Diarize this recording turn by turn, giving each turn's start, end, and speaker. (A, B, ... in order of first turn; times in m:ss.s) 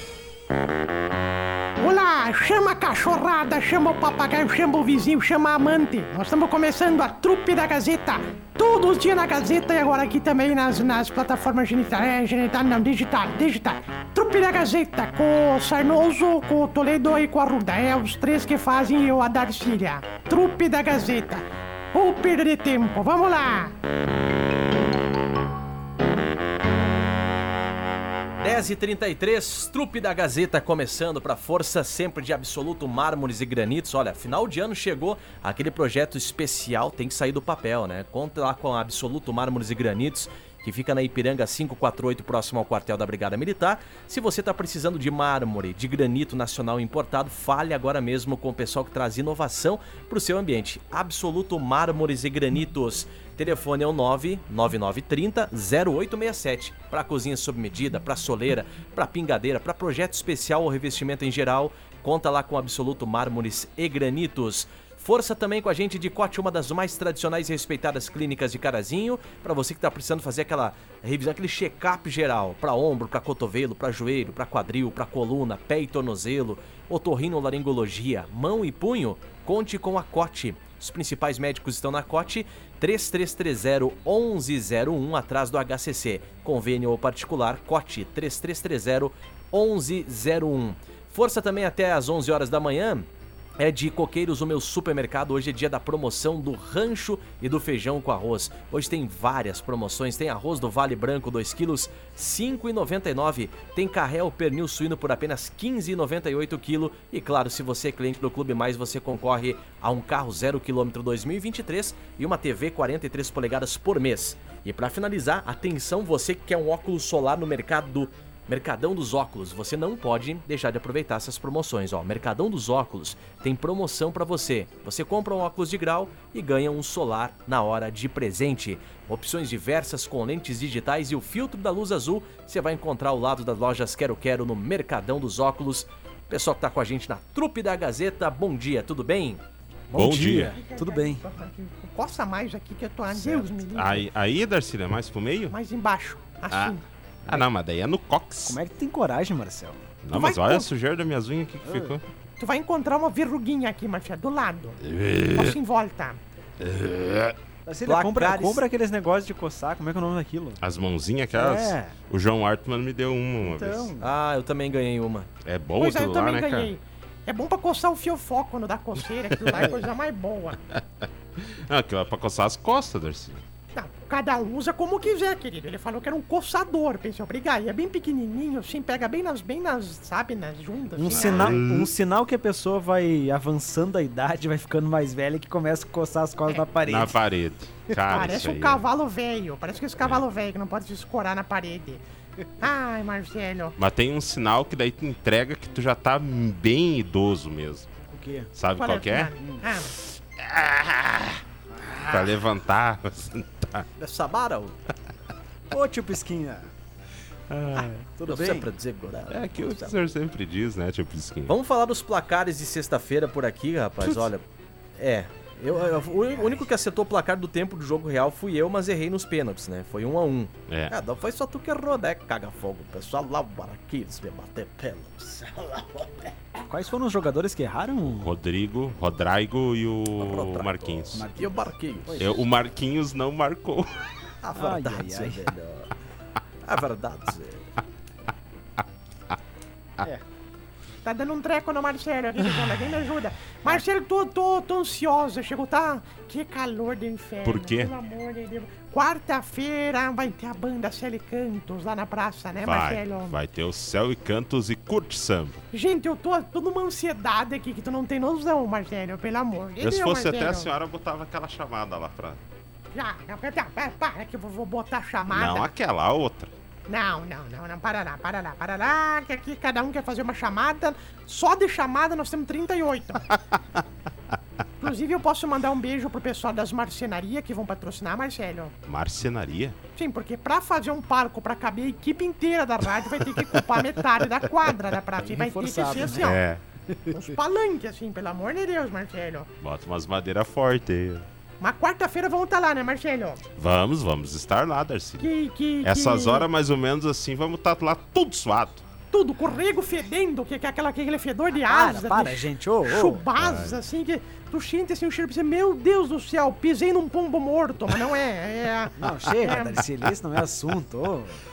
0:01.8-0:23.8 A
0:28.4-1:33.1 B
1:33.6-2:19.4 B
2:19.9-2:21.2 C
2:19.9-2:20.5 D
2:20.5-2:24.1 A
2:23.1-2:23.5 C
2:23.7-2:25.6 D
2:25.5-2:26.8 A
2:26.5-2:28.6 D
2:28.4-2:29.9 C
2:30.0-2:32.0 D
2:30.1-2:30.7 A
2:31.6-2:32.0 C
2:32.4-2:34.8 A
2:34.8-2:35.6 D
2:35.3-2:36.2 A
2:36.6-2:37.3 D
2:37.6-2:40.6 C
2:37.8-2:38.6 B
2:40.6-2:43.9 D
2:41.3-2:41.9 C
2:43.4-2:44.1 C
2:44.0-2:45.3 B
2:45.4-2:46.7 D
2:45.8-2:50.6 A
2:51.4-2:53.4 D
2:53.7-3:01.6 A
3:01.0-3:07.2 C
3:01.1-3:01.9 D
3:06.8-3:08.8 D
3:07.9-3:08.4 C
3:08.1-3:12.0 A
3:12.6-3:13.8 A
3:13.8-3:17.9 D
3:18.1-3:18.5 C
3:18.5-3:19.4 D
3:18.8-3:19.9 A
3:19.9-3:21.4 D
3:21.9-3:22.1 C
3:21.9-3:23.9 D
3:24.0-3:24.8 B
3:25.7-3:26.7 C
3:27.5-3:28.1 D
3:28.2-3:28.7 C
3:28.2-3:30.0 B
3:29.3-3:31.5 D
3:31.5-3:34.4 B
3:35.0-3:46.3 B
3:36.0-3:36.6 C
3:40.7-3:40.9 D
3:46.6-3:48.4 C
3:48.2-3:51.3 D
3:50.2-3:52.3 B
3:51.1-3:52.4 C
3:52.2-3:54.1 D
3:54.4-3:55.9 B
3:54.5-3:55.6 C
3:56.6-3:57.6 B
4:01.0-4:13.3 A
4:07.4-4:07.9 D
4:12.6-4:15.6 D
4:15.7-4:20.7 A
4:19.8-4:22.4 D
4:22.9-4:25.7 A
4:25.3-4:26.5 D
4:26.9-4:33.2 A
4:34.8-4:38.7 A
4:38.9-4:39.8 D
4:40.0-4:46.4 A
4:45.2-4:46.4 C
4:46.1-4:46.6 D
4:46.9-4:47.3 C
4:47.1-4:49.5 A
4:49.6-4:51.2 D
4:51.6-4:53.4 A
4:53.6-4:55.3 D
4:55.2-4:56.5 A
4:55.8-4:58.8 D
4:59.1-5:09.8 A
5:01.5-5:03.3 C
5:03.4-5:03.8 D
5:09.0-5:11.4 C